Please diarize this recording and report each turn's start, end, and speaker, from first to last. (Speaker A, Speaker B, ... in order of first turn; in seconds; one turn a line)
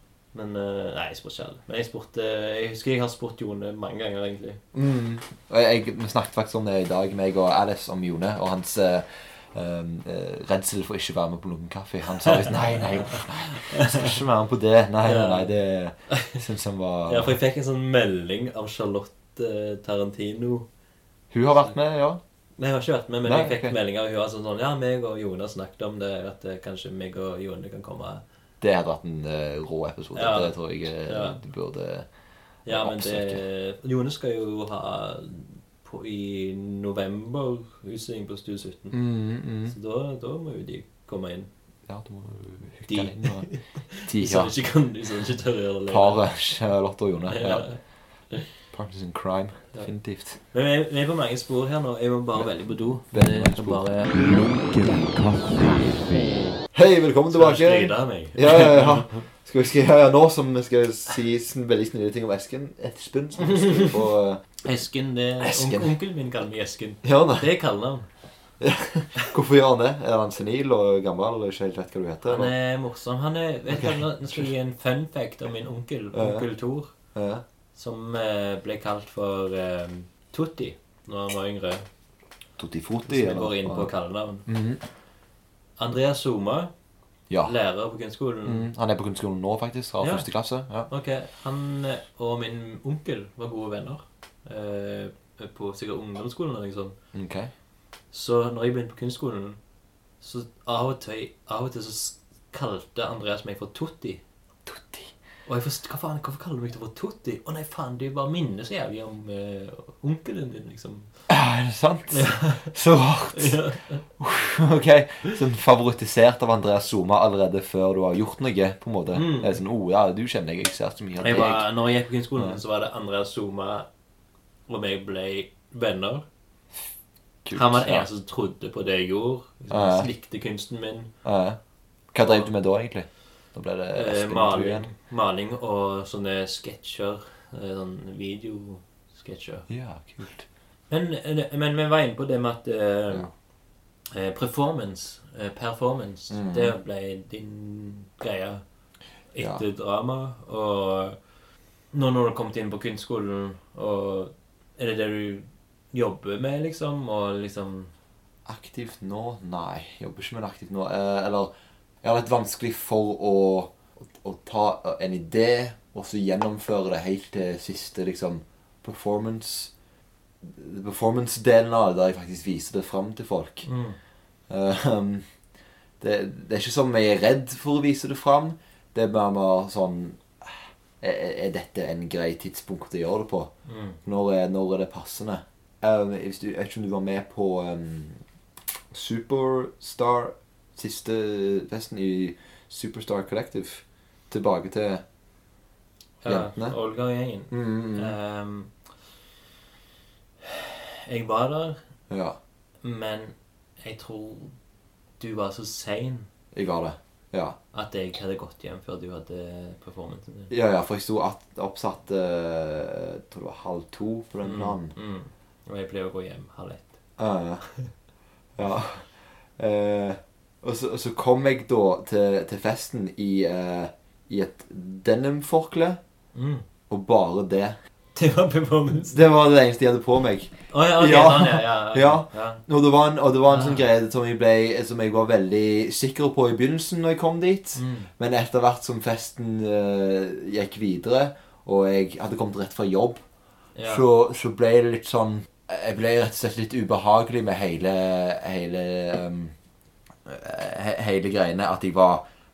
Speaker A: 0.3-4.6
Speaker B: 4.7-17.4
Speaker A: 13.1-14.1
Speaker A: 15.0-15.5
Speaker A: 17.1-20.7
Speaker B: 21.3-22.2
Speaker A: 22.6-28.2
Speaker B: 23.2-23.8
Speaker B: 28.6-32.1
Speaker A: 30.1-31.4
Speaker A: 32.7-39.0
Speaker B: 32.7-33.4
Speaker B: 38.9-39.8
Speaker A: 39.7-41.5
Speaker B: 41.9-44.5
Speaker A: 42.9-46.2
Speaker B: 45.9-47.8
Speaker A: 47.3-47.8
Speaker B: 48.5-50.4
Speaker A: 50.5-54.1
Speaker B: 53.1-53.9
Speaker C: 54.1-56.6
Speaker B: 56.7-64.4
Speaker A: 57.3-59.2
Speaker A: 63.6-63.9
Speaker A: 64.6-68.1
Speaker B: 65.4-65.9
Speaker B: 67.0-67.5
Speaker B: 68.6-72.5
Speaker A: 72.2-76.9
Speaker B: 73.7-74.5
Speaker B: 76.1-76.5
Speaker B: 77.1-77.4
Speaker A: 77.8-81.9
Speaker B: 82.6-83.9
Speaker A: 83.1-84.5
Speaker B: 84.5-84.8
Speaker A: 85.8-86.7
Speaker A: 87.4-88.7
Speaker B: 88.5-90.9
Speaker A: 90.0-90.3
Speaker A: 90.9-97.0
Speaker B: 97.1-97.5
Speaker A: 98.1-99.6
Speaker A: 100.2-104.2
Speaker B: 104.7-105.1
Speaker A: 105.5-111.2
Speaker B: 111.3-113.7
Speaker A: 112.1-112.7
Speaker A: 113.3-114.0
Speaker B: 114.2-121.7
Speaker A: 119.1-119.6
Speaker A: 121.2-123.9
Speaker A: 124.7-126.3
Speaker B: 127.5-128.1
Speaker A: 127.5-131.1
Speaker B: 129.7-130.1
Speaker B: 131.2-131.6
Speaker B: 132.1-134.9
Speaker A: 133.9-139.7
Speaker B: 139.7-140.5
Speaker A: 140.9-143.3
Speaker A: 144.1-148.6
Speaker B: 146.3-146.8
Speaker A: 149.3-151.2
Speaker A: 151.9-157.9
Speaker B: 158.5-161.5
Speaker B: 162.0-169.7
Speaker B: 170.4-173.7
Speaker A: 173.7-174.0
Speaker B: 174.5-175.2
Speaker B: 176.0-183.5
Speaker A: 183.7-184.0
Speaker B: 184.0-188.2
Speaker B: 188.9-195.0
Speaker A: 196.2-198.7
Speaker B: 196.3-196.8
Speaker B: 197.5-198.2
Speaker A: 200.4-201.8
Speaker B: 202.1-202.4
Speaker A: 202.8-204.5
Speaker A: 205.2-206.3
Speaker B: 206.5-207.6
Speaker A: 207.7-210.5
Speaker B: 210.5-214.9
Speaker A: 214.4-217.0
Speaker B: 217.2-217.7
Speaker B: 218.6-226.0
Speaker A: 226.3-226.7
Speaker B: 226.9-227.8
Speaker A: 228.2-229.2
Speaker B: 229.1-243.2
Speaker A: 230.7-232.6
Speaker A: 233.5-233.8
Speaker A: 237.8-238.1
Speaker A: 243.8-244.0
Speaker B: 243.8-249.5
Speaker B: 250.2-252.2